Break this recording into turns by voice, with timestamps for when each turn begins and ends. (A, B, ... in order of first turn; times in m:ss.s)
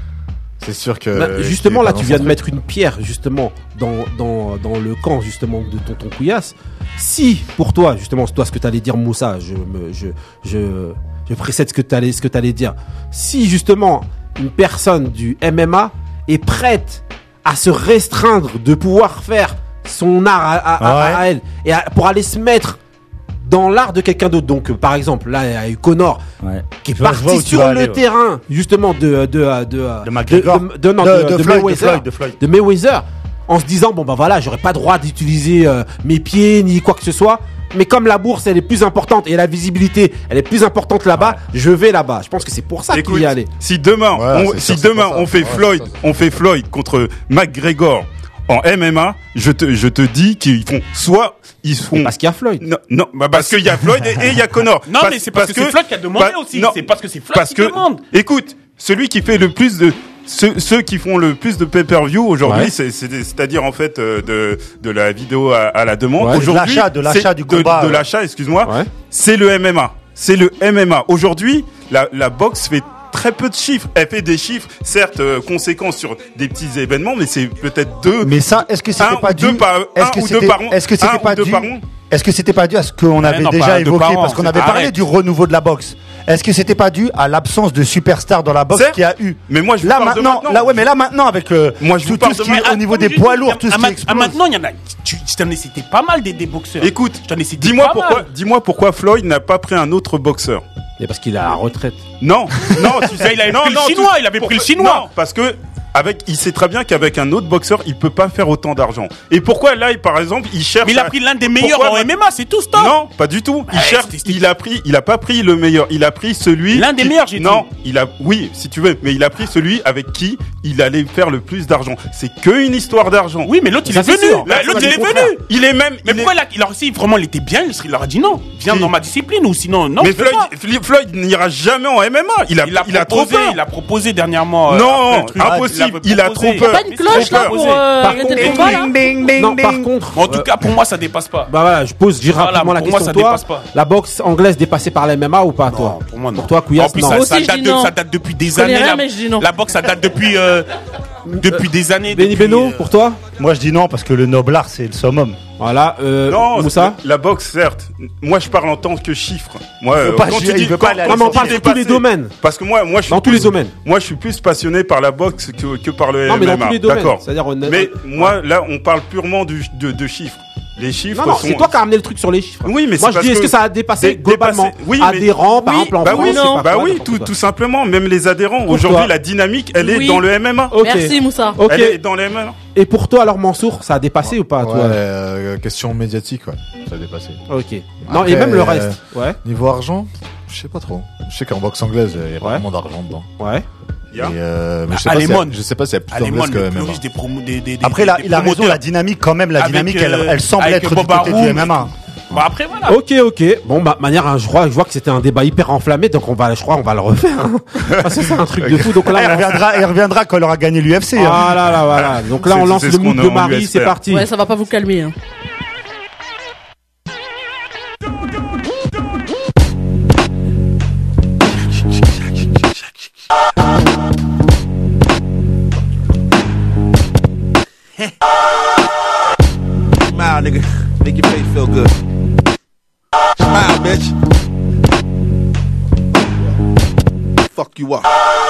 0:00.6-0:02.4 A
0:01.1-0:22.8 B
0:20.8-0:21.2 C
0:23.4-0:26.2 B
0:26.4-0:28.0 C
0:26.8-0:43.5 B
0:30.0-0:32.4 C
0:42.9-0:56.8 D
0:44.1-0:46.0 A
0:52.0-0:52.6 B
0:53.2-0:54.1 E
0:54.9-0:58.0 E
0:57.3-1:18.4 D
1:02.4-1:02.7 B
1:06.2-1:06.4 B
1:06.3-1:08.0 C
1:08.6-1:08.9 B
1:18.2-1:34.4 C
1:19.0-1:21.8 D
1:23.2-1:25.0 E
1:28.7-1:30.8 D
1:31.8-1:32.7 D
1:32.5-1:38.3 E
1:36.8-1:40.6 D
1:41.0-1:42.0 B
1:42.2-1:52.1 D
1:43.0-1:45.1 E
1:50.8-1:53.0 E
1:52.7-2:03.5 D
1:53.7-1:54.5 E
1:56.7-1:57.7 E
2:03.5-2:05.5 E
2:03.9-2:05.3 B
2:04.4-2:06.3 D
2:06.0-2:10.5 E
2:10.0-2:13.6 D
2:12.6-2:18.9 E
2:14.7-2:17.6 D
2:15.4-2:15.8 C
2:16.6-2:18.9 F
2:18.0-2:20.5 B
2:18.0-2:19.9 C
2:20.2-2:21.5 E
2:21.5-2:27.3 B
2:22.3-2:23.7 E
2:25.7-2:30.7 E
2:27.0-2:28.0 F
2:28.5-2:29.5 F
2:31.3-2:31.6 B
2:31.3-2:32.9 E
2:32.1-2:33.2 B
2:33.4-2:35.4 C
2:35.6-2:37.0 B
2:36.3-2:51.8 D
2:40.0-2:41.6 C
2:41.0-2:42.4 B
2:43.1-2:43.7 B
2:46.3-2:48.4 B
2:51.1-2:57.3 B
2:52.6-3:00.8 D
2:55.9-2:56.6 F
2:58.7-2:59.1 B
2:59.8-3:01.6 F
3:00.7-3:02.0 B
3:01.6-3:02.6 D
3:02.8-3:05.0 B
3:04.5-3:07.4 A
3:07.5-3:09.4 B
3:08.0-3:13.3 A
3:13.4-3:13.7 B
3:14.1-3:14.4 D
3:14.1-3:17.0 A
3:14.9-3:18.8 E
3:17.8-3:21.9 C
3:19.6-3:21.8 E
3:22.3-3:23.0 E
3:22.9-3:29.6 B
3:29.0-3:31.5 C
3:31.2-3:34.2 B
3:32.1-3:34.0 D
3:34.1-3:35.2 F
3:50.1-3:51.9 G
3:53.4-3:54.1 G
3:56.1-3:56.6 G
3:57.5-3:58.1 G